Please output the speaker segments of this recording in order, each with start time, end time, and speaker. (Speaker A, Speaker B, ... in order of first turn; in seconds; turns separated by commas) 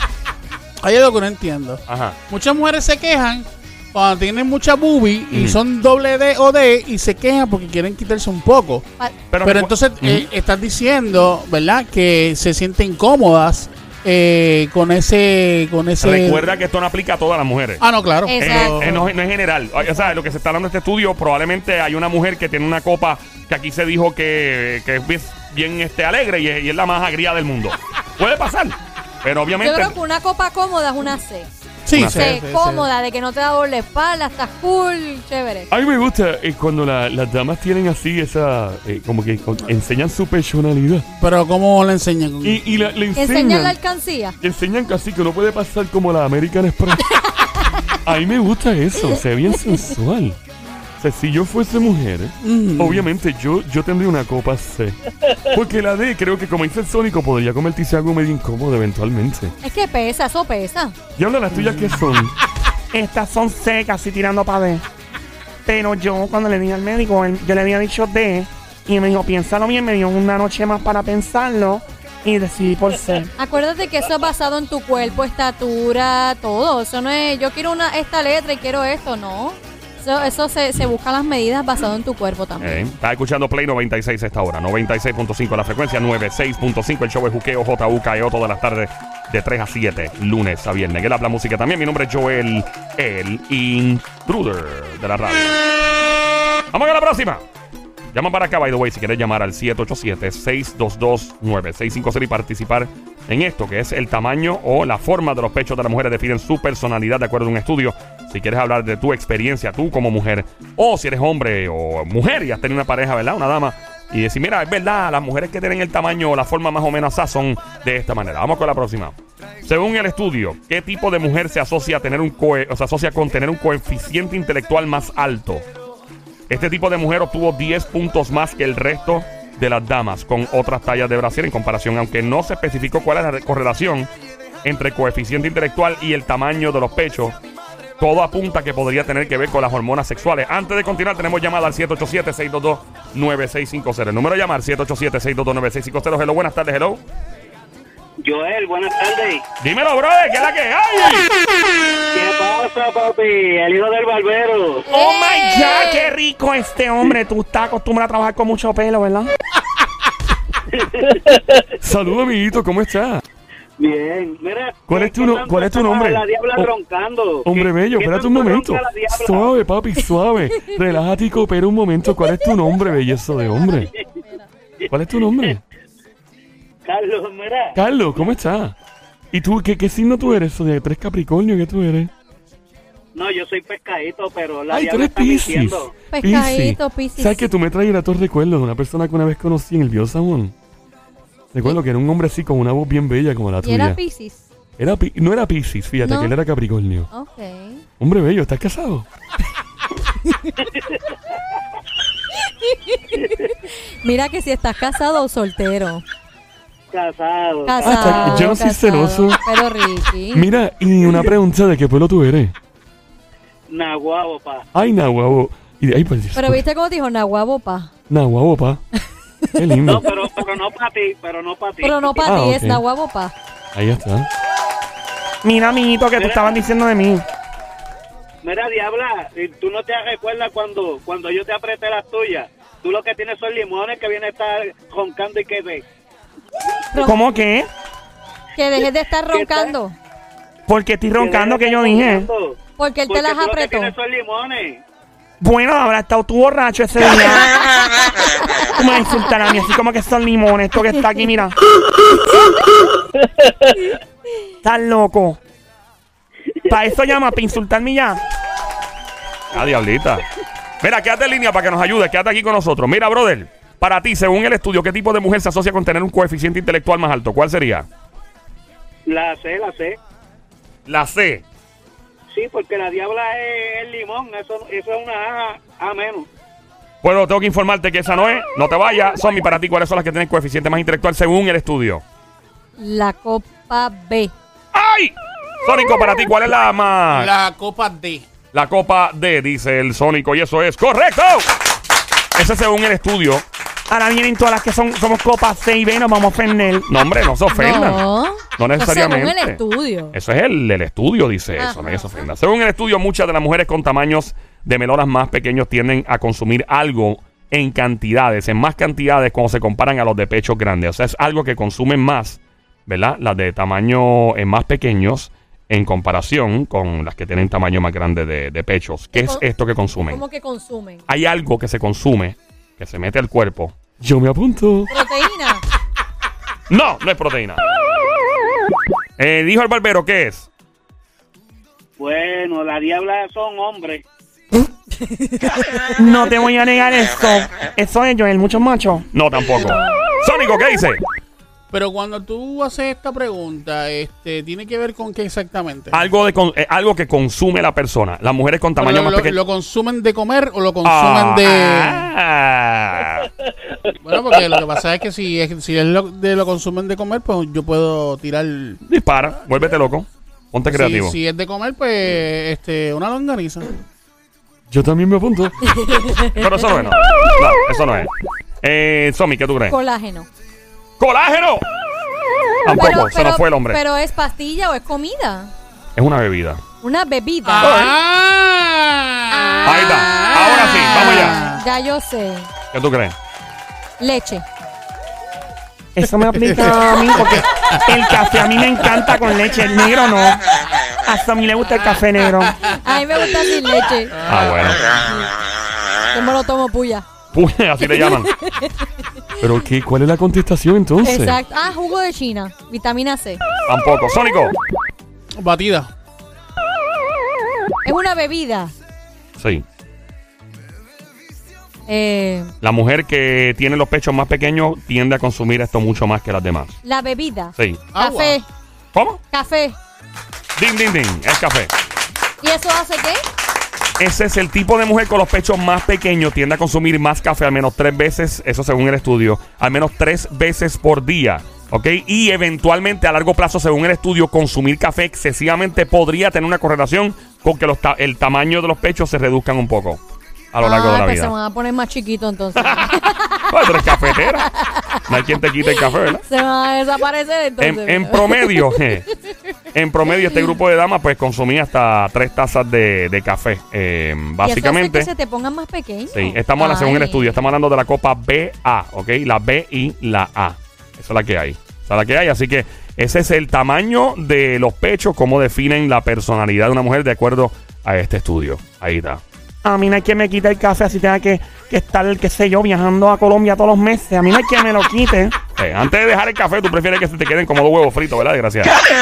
Speaker A: 0.8-8.9, Speaker B: 1.9-2.2, Speaker B: 5.3-5.6, Speaker B: 9.3-10.3, Speaker A: 9.4-16.5, Speaker B: 16.0-17.8, Speaker A: 17.8-19.0, Speaker C: 18.3-19.0, Speaker B: 18.4-30.0, Speaker C: 29.6-31.5, Speaker A: 31.9-32.9, Speaker B: 31.9-32.4, Speaker C: 32.0-35.7, Speaker D: 35.7-41.1, Speaker A: 41.2-42.6, Speaker D: 42.4-43.8, Speaker C: 43.2-44.4, Speaker D: 44.4-47.1, Speaker C: 47.0-48.0, Speaker D: 48.0-50.4, Speaker D: 51.0-59.5, Speaker A: 52.4-53.1, Speaker C: 59.6-61.0, Speaker D: 61.2-62.4, Speaker E: 62.9-64.8, Speaker E: 65.7-73.3, Speaker C: 73.4-82.8, Speaker B: 82.6-95.6, Speaker B: 96.7-97.5, Speaker B: 98.1-125.7, Speaker B: 126.5-134.1, Speaker B: 134.6-137.4, Speaker B: 138.0-147.0, Speaker F: 148.2-149.4, Speaker B: 149.6-151.3, Speaker F: 152.1-154.9, Speaker C: 154.9-156.1, Speaker E: 154.9-159.3, Speaker F: 160.8-161.3, Speaker D: 161.8-163.2, Speaker F: 163.8-169.6, Speaker D: 164.9-166.7, Speaker D: 167.4-173.9, Speaker D: 174.9-175.6, Speaker F: 176.8-177.8, Speaker D: 177.8-178.8, Speaker D: 179.3-182.1, Speaker F: 183.2-185.9, Speaker D: 184.7-190.5, Speaker C: 186.1-187.5, Speaker D: 191.5-194.0, Speaker C: 193.6-194.5, Speaker D: 194.8-197.1, Speaker C: 196.0-196.3, Speaker C: 197.1-197.8, Speaker D: 198.0-199.1, Speaker C: 200.2-200.6, Speaker C: 202.3-206.0, Speaker F: 206.9-208.5, Speaker C: 207.7-210.5, Speaker D: 207.8-209.4, Speaker D: 210.3-212.6, Speaker F: 213.7-214.7, Speaker D: 214.7-216.6, Speaker C: 216.3-217.9, Speaker D: 218.1-218.8, Speaker C: 219.4-219.7, Speaker D: 219.6-220.1, Speaker F: 219.8-222.3, Speaker C: 221.8-223.3, Speaker D: 222.2-222.8, Speaker D: 223.8-224.3, Speaker E: 225.4-227.2, Speaker F: 226.2-226.6, Speaker F: 228.4-235.8, Speaker C: 236.9-237.2, Speaker E: 237.0-237.7, Speaker C: 238.6-239.9, Speaker F: 239.3-239.8, Speaker E: 240.7-242.3, Speaker F: 241.1-244.8, Speaker C: 242.8-243.9, Speaker E: 245.4-247.7, Speaker C: 247.2-248.7, Speaker E: 248.7-251.6, Speaker C: 252.3-252.7, Speaker E: 254.6-255.4, Speaker E: 256.7-258.2, Speaker B: 259.5-260.2, Speaker B: 260.8-267.9, Speaker F: 269.1-270.0, Speaker B: 270.9-271.4, Speaker F: 272.3-276.3, Speaker B: 277.0-282.0, Speaker C: 282.8-284.3, Speaker B: 284.7-287.3, Speaker A: 287.1-288.2, Speaker B: 288.5-291.5, Speaker B: 292.4-293.5, Speaker E: 293.9-296.9, Speaker B: 296.9-299.6, Speaker C: 297.5-300.2, Speaker B: 300.1-320.2, Speaker C: 301.6-302.2, Speaker C: 319.1-319.4, Speaker C: 320.1-321.0, Speaker B: 321.1-323.8, Speaker D: 324.0-324.9, Speaker C: 324.9-325.6, Speaker B: 326.7-327.6, Speaker B: 329.2-330.5, Speaker F: 332.0-334.0, Speaker C: 335.0-335.9, Speaker E: 336.0-339.1, Speaker B: 339.1-341.0, Speaker C: 339.5-340.0, Speaker A: 341.7-346.0, Speaker B: 345.9-349.4, Speaker A: 348.8-352.1, Speaker B: 350.8-353.3, Speaker A: 354.0-358.8, Speaker B: 358.9-361.2, Speaker A: 360.7-363.7, Speaker D: 364.7-365.6, Speaker C: 365.6-366.9, Speaker B: 366.3-368.1, Speaker B: 368.6-369.8, Speaker C: 369.7-370.3, Speaker B: 371.0-371.6, Speaker B: 372.6-373.8, Speaker C: 372.7-375.5, Speaker B: 376.0-376.6, Speaker C: 376.8-377.8, Speaker A: 377.4-381.6, Speaker B: 377.6-377.9, Speaker C: 379.3-382.5, Speaker B: 379.6-381.4, Speaker B: 382.7-383.2, Speaker C: 384.0-384.4, Speaker E: 386.0-390.4, Speaker A: 386.4-388.2, Speaker E: 391.1-392.6, Speaker C: 392.6-394.3, Speaker B: 394.2-395.0, Speaker A: 394.3-394.8, Speaker C: 394.9-395.3, Speaker C: 396.1-397.1, Speaker B: 397.3-398.3, Speaker C: 397.8-398.9, Speaker D: 399.4-401.4, Speaker C: 401.0-403.4, Speaker B: 403.7-404.6, Speaker A: 405.4-405.9, Speaker C: 407.9-408.7, Speaker B: 409.4-409.6, Speaker C: 411.9-412.5, Speaker B: 412.6-416.8, Speaker C: 416.8-418.4, Speaker B: 417.6-417.8, Speaker A: 417.9-418.4, Speaker B: 418.9-419.2, Speaker C: 419.3-419.8, Speaker B: 420.6-421.7, Speaker C: 422.4-423.2, Speaker B: 424.0-440.0, Speaker B: 440.5-441.3, Speaker C: 440.6-449.3, Speaker B: 442.6-444.5, Speaker B: 445.1-446.2, Speaker B: 447.6-449.1, Speaker B: 449.7-455.1, Speaker C: 450.2-450.5, Speaker C: 454.4-457.4, Speaker B: 456.1-469.2, Speaker E: 469.6-475.4, Speaker B: 475.6-478.7